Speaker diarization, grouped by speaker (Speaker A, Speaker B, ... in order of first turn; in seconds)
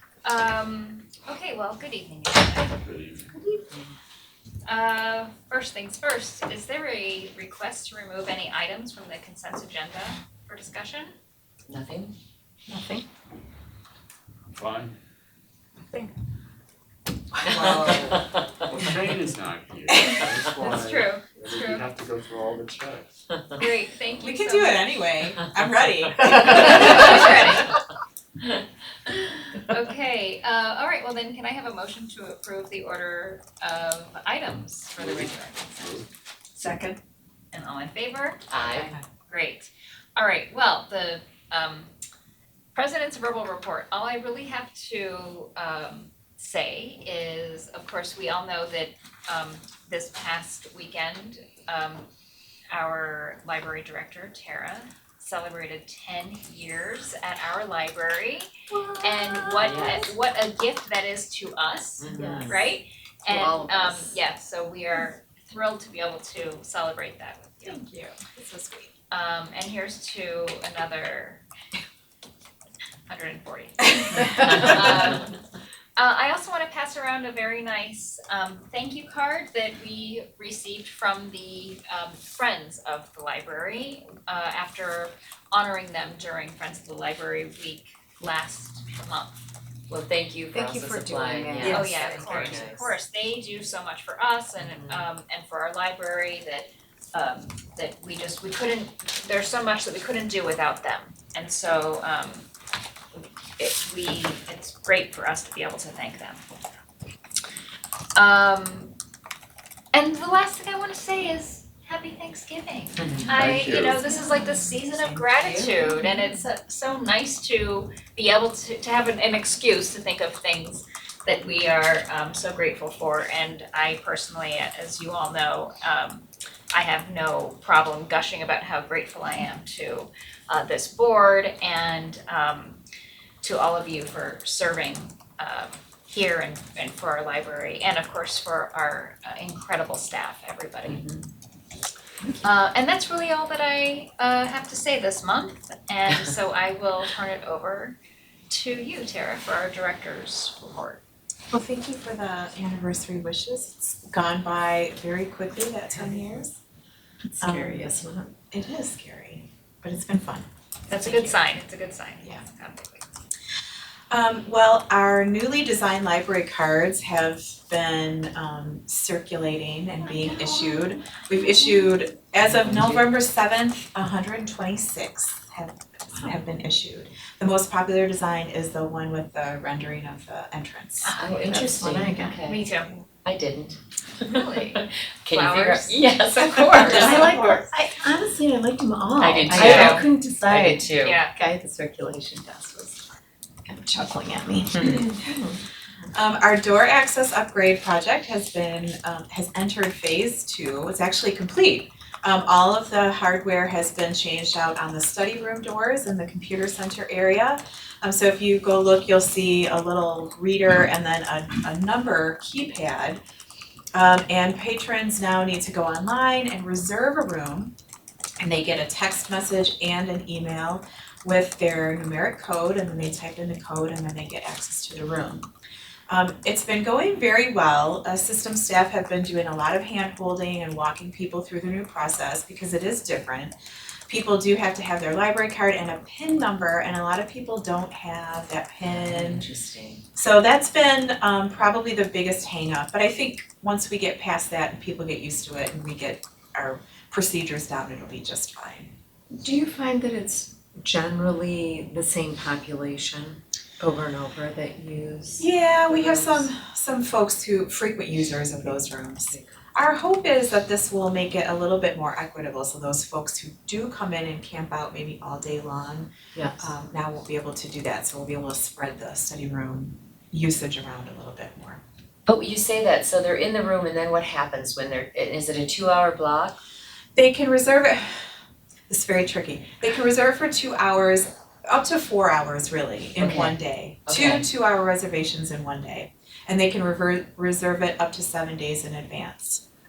Speaker A: 0.2-2.8, 3.3-3.8, 4.7-11.1, 20.6-21.9, 23.6-24.9, 26.3-27.8, 29.6-36.0, 36.5-37.0, 37.5-41.9, 42.7-52.0, 52.7-58.5, 59.0-67.8, 69.1-71.4, 73.1-75.4, 76.0-89.4, 91.5-102.5, 103.6-106.4, 108.1-108.9, 109.9-132.8, 133.4-141.1, 142.4-148.0, 148.5-151.0, 160.9-163.1, 181.1-182.9, 184.2-187.5, 189.5-190.1, 191.0-191.3
Speaker B: 2.7-3.4, 14.5-14.9, 17.8-23.4, 35.0-36.1, 113.3-114.2
Speaker C: 11.7-12.1, 26.5-27.0, 38.5-39.0, 59.6-60.1, 62.0-62.6, 63.3-64.2, 89.9-92.8, 94.6-95.1, 113.0-113.3, 140.8-141.2, 172.5-173.1, 181.1-182.7, 183.2-187.7, 189.2-191.2, 194.7-195.1, 238.8-240.0, 255.9-256.4, 272.3-276.6, 283.2-283.6, 284.1-284.5
Speaker D: 12.7-13.1, 62.1-62.7, 90.5-92.9, 115.4-115.7, 157.3-158.3, 181.2-182.5, 186.8-193.0, 193.7-195.6, 249.3-255.5, 266.4-266.7
Speaker E: 17.3-18.1, 24.2-27.3, 59.0-59.9, 67.6-68.9, 151.5-156.6, 157.4-157.9, 158.5-160.5, 161.0-161.4, 164.1-181.1, 194.8-195.4, 196.1-213.2, 213.9-217.7, 218.4-225.5, 226.1-233.5, 234.1-239.5, 240.2-248.9, 255.4-271.8, 277.1-278.3, 278.9-289.6